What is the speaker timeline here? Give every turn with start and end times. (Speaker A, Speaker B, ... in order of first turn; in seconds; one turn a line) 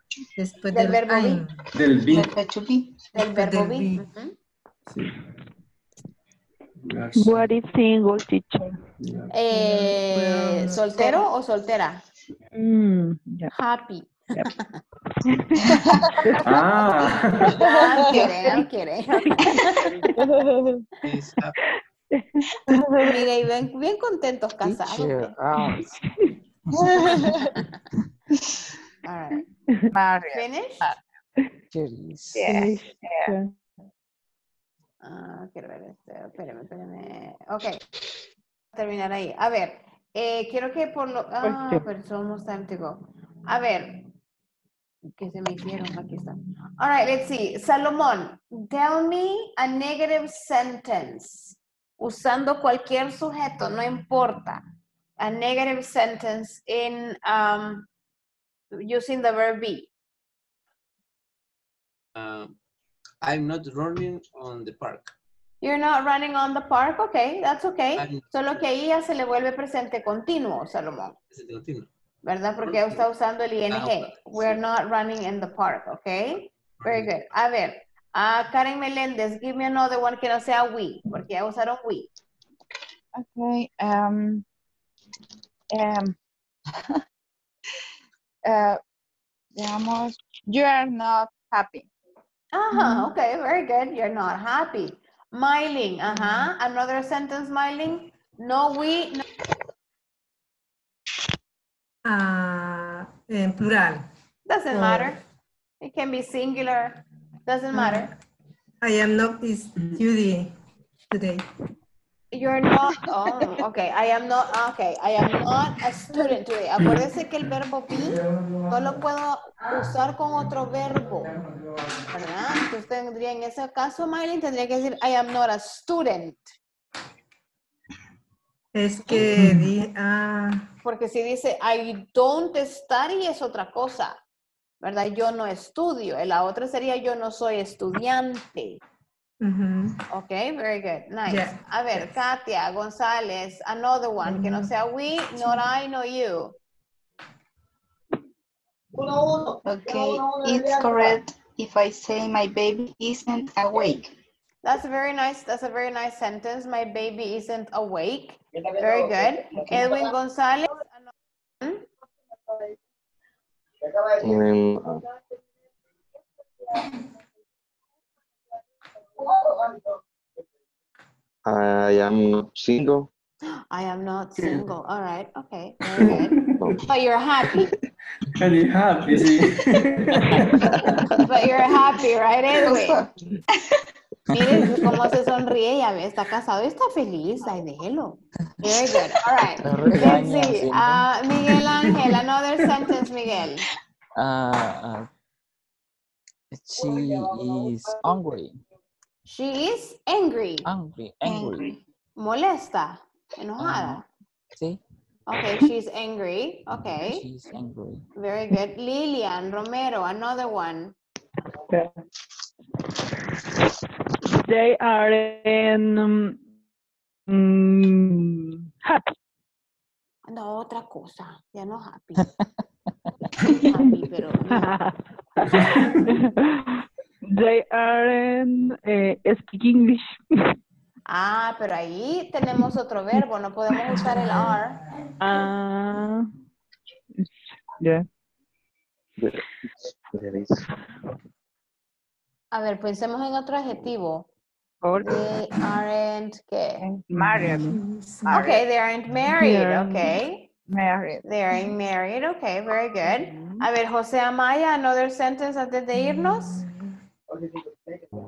Speaker A: 0.4-1.6
Speaker B: 0.7-1.4
Speaker C: 1.7-2.3
Speaker D: 2.1-3.1
Speaker B: 3.1-4.3
Speaker A: 3.2-4.1
Speaker C: 4.9-5.1
Speaker C: 6.8-7.5
Speaker E: 7.1-8.8
Speaker C: 9.0-9.3
Speaker B: 9.3-12.0
Speaker A: 9.5-11.1
Speaker E: 12.6-13.5
Speaker B: 13.5-14.8
Speaker E: 15.2-16.6
Speaker D: 15.6-15.9
Speaker C: 16.4-17.6
Speaker B: 17.5-20.0
Speaker E: 17.9-18.6
Speaker E: 19.2-20.4
Speaker F: 21.1-21.6
Speaker E: 22.1-23.2
Speaker B: 23.0-25.3
Speaker G: 24.6-25.9
Speaker E: 25.6-26.3
Speaker G: 26.7-27.4
Speaker B: 29.0-29.4
Speaker B: 30.3-30.9
Speaker G: 31.7-32.6
Speaker H: 32.4-33.3
Speaker E: 32.5-33.5
Speaker B: 35.0-37.8
Speaker B: 38.7-44.0
Speaker E: 41.4-41.9
Speaker B: 45.2-54.6
Speaker B: 55.2-57.9
Speaker B: 58.7-59.9
Speaker F: 62.1-62.6
Speaker F: 63.2-65.1
Speaker B: 65.6-71.1
Speaker F: 68.0-68.6
Speaker F: 71.3-71.9
Speaker B: 72.2-82.1
Speaker F: 72.6-73.1
Speaker F: 73.7-74.6
Speaker F: 76.8-77.2
Speaker H: 83.1-84.5
Speaker H: 85.7-86.2
Speaker H: 88.4-88.8
Speaker H: 89.5-91.9
Speaker B: 92.5-99.2
Speaker A: 102.0-104.1
Speaker B: 104.5-105.2
Speaker A: 104.7-105.2
Speaker B: 105.8-108.1
Speaker A: 107.7-108.1
Speaker A: 108.8-110.5
Speaker A: 111.1-111.5
Speaker B: 112.3-121.4
Speaker B: 122.1-126.5
Speaker A: 128.7-130.7
Speaker B: 130.8-134.2
Speaker B: 134.8-138.8
Speaker A: 139.4-140.0
Speaker B: 140.1-146.6
Speaker A: 141.3-142.3
Speaker A: 144.2-144.7
Speaker A: 145.3-145.6
Speaker H: 149.1-150.4
Speaker D: 149.6-154.1
Speaker B: 154.6-161.9
Speaker I: 164.2-165.0
Speaker I: 171.4-173.1
Speaker B: 173.7-177.7
Speaker C: 174.4-174.7
Speaker C: 178.3-180.9
Speaker B: 181.1-183.0
Speaker D: 182.6-183.1
Speaker B: 184.3-193.7
Speaker G: 184.3-184.8
Speaker G: 189.6-191.1
Speaker G: 194.2-195.1
Speaker G: 196.5-198.6
Speaker B: 199.3-200.7
Speaker G: 200.6-201.7
Speaker D: 201.2-201.8
Speaker B: 202.2-204.1
Speaker G: 203.6-204.0
Speaker G: 204.6-204.8
Speaker B: 205.3-207.3
Speaker G: 207.0-208.1
Speaker B: 208.1-210.9
Speaker E: 211.7-211.9
Speaker E: 214.3-216.4
Speaker E: 217.3-219.1
Speaker B: 220.3-222.3
Speaker B: 223.7-224.7
Speaker E: 224.6-230.2
Speaker C: 225.5-226.1
Speaker B: 231.1-234.8
Speaker E: 233.9-234.3
Speaker A: 234.0-234.6
Speaker E: 235.2-236.3
Speaker E: 237.2-238.1
Speaker I: 239.2-240.7
Speaker B: 242.5-244.3
Speaker E: 244.8-245.3
Speaker B: 245.0-246.8
Speaker H: 246.8-247.7
Speaker E: 247.1-247.8
Speaker A: 247.7-248.4
Speaker H: 248.2-248.6
Speaker B: 248.3-250.5
Speaker E: 249.3-250.2
Speaker H: 250.7-251.2
Speaker B: 251.2-256.6
Speaker E: 253.1-253.7
Speaker A: 255.9-256.9